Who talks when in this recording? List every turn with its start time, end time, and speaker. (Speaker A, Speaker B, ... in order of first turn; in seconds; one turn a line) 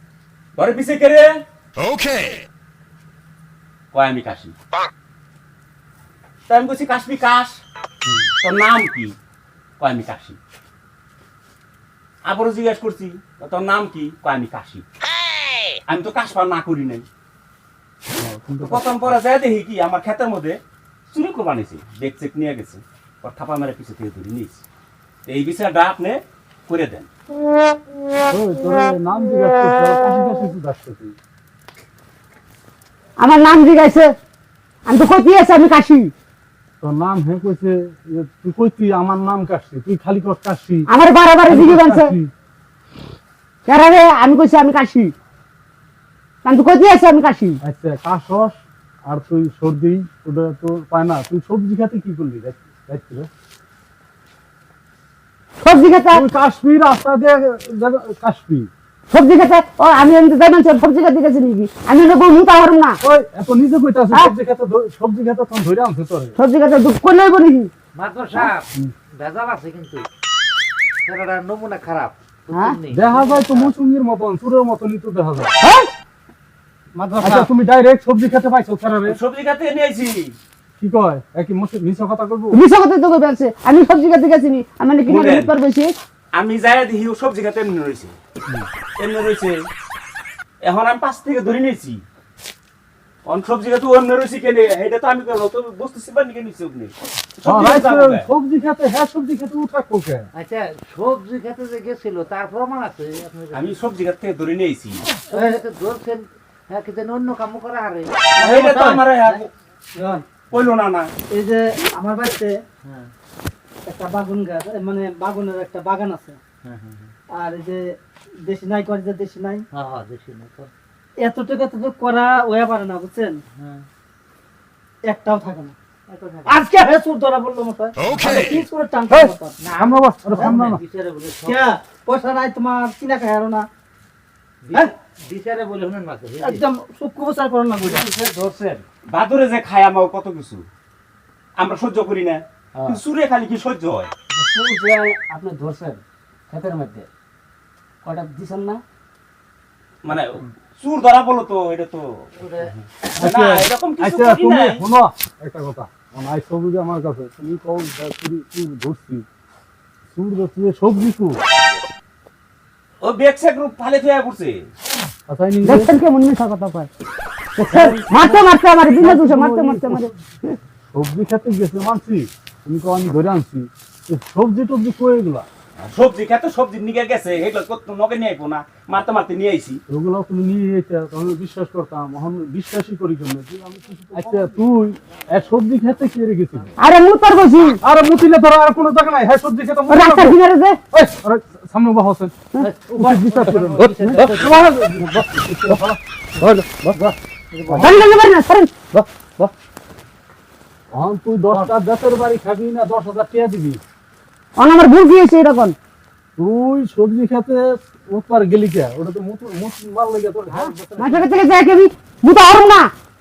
Speaker A: 0.6-1.3
Speaker A: 3.9-4.5
Speaker A: 6.5-7.6
Speaker A: 8.4-9.2
Speaker A: 9.8-10.4
Speaker A: 12.3-14.8
Speaker A: 15.9-17.1
Speaker B: 18.2-18.9
Speaker A: 18.6-20.6
Speaker A: 21.1-24.6
Speaker A: 25.3-27.1
Speaker B: 28.3-31.1
Speaker C: 33.2-34.1
Speaker C: 34.9-36.1
Speaker B: 36.8-40.9
Speaker C: 40.9-42.1
Speaker B: 41.5-42.3
Speaker C: 43.7-45.1
Speaker C: 46.4-47.6
Speaker B: 47.6-53.3
Speaker C: 55.6-56.2
Speaker B: 56.1-58.7
Speaker C: 59.1-63.0
Speaker B: 63.0-66.3
Speaker C: 66.4-67.7
Speaker D: 68.0-70.1
Speaker D: 71.0-73.7
Speaker C: 72.5-72.8
Speaker B: 72.9-75.5
Speaker C: 75.6-75.9
Speaker E: 77.0-77.5
Speaker B: 77.2-79.2
Speaker A: 79.1-80.4
Speaker B: 80.8-82.6
Speaker C: 82.5-85.9
Speaker A: 85.1-85.5
Speaker A: 86.4-88.2
Speaker A: 89.0-89.6
Speaker A: 90.6-92.0
Speaker A: 93.3-98.3
Speaker B: 97.5-100.3
Speaker D: 100.3-103.8
Speaker A: 103.5-105.1
Speaker D: 105.3-109.0
Speaker E: 105.3-105.6
Speaker E: 108.4-109.4
Speaker A: 108.4-109.5
Speaker E: 110.0-110.3
Speaker A: 110.5-111.1
Speaker E: 111.3-112.6
Speaker D: 112.8-113.1
Speaker E: 113.9-116.4
Speaker D: 116.6-117.1
Speaker E: 117.3-117.8
Speaker E: 118.5-119.7
Speaker D: 119.7-120.7
Speaker E: 121.2-123.4
Speaker D: 123.5-123.9
Speaker E: 125.1-125.8
Speaker D: 126.1-126.6
Speaker E: 126.5-129.6
Speaker D: 128.1-128.5
Speaker B: 129.1-130.8
Speaker D: 129.6-131.7
Speaker E: 130.3-130.6
Speaker E: 131.4-133.7
Speaker D: 134.6-136.6
Speaker E: 136.4-138.1
Speaker D: 137.8-138.8
Speaker A: 139.1-140.7
Speaker A: 141.6-145.9
Speaker A: 146.5-147.0
Speaker A: 150.0-152.3
Speaker D: 152.4-152.7
Speaker A: 152.9-154.8
Speaker B: 153.2-159.3
Speaker B: 160.2-161.4
Speaker A: 163.0-164.7
Speaker B: 165.3-165.9
Speaker C: 165.6-166.9
Speaker C: 167.6-170.6
Speaker B: 167.7-168.4
Speaker B: 169.0-170.1
Speaker B: 170.9-175.5
Speaker A: 175.8-179.8
Speaker B: 179.9-186.7
Speaker C: 186.8-187.8
Speaker B: 187.8-190.4
Speaker C: 189.9-190.8
Speaker B: 190.9-192.3
Speaker D: 192.6-194.6
Speaker B: 192.9-196.0
Speaker B: 196.9-198.0
Speaker D: 197.5-197.9
Speaker C: 197.8-198.9
Speaker B: 200.9-203.8
Speaker C: 204.6-205.8
Speaker B: 206.4-211.3
Speaker C: 210.5-212.9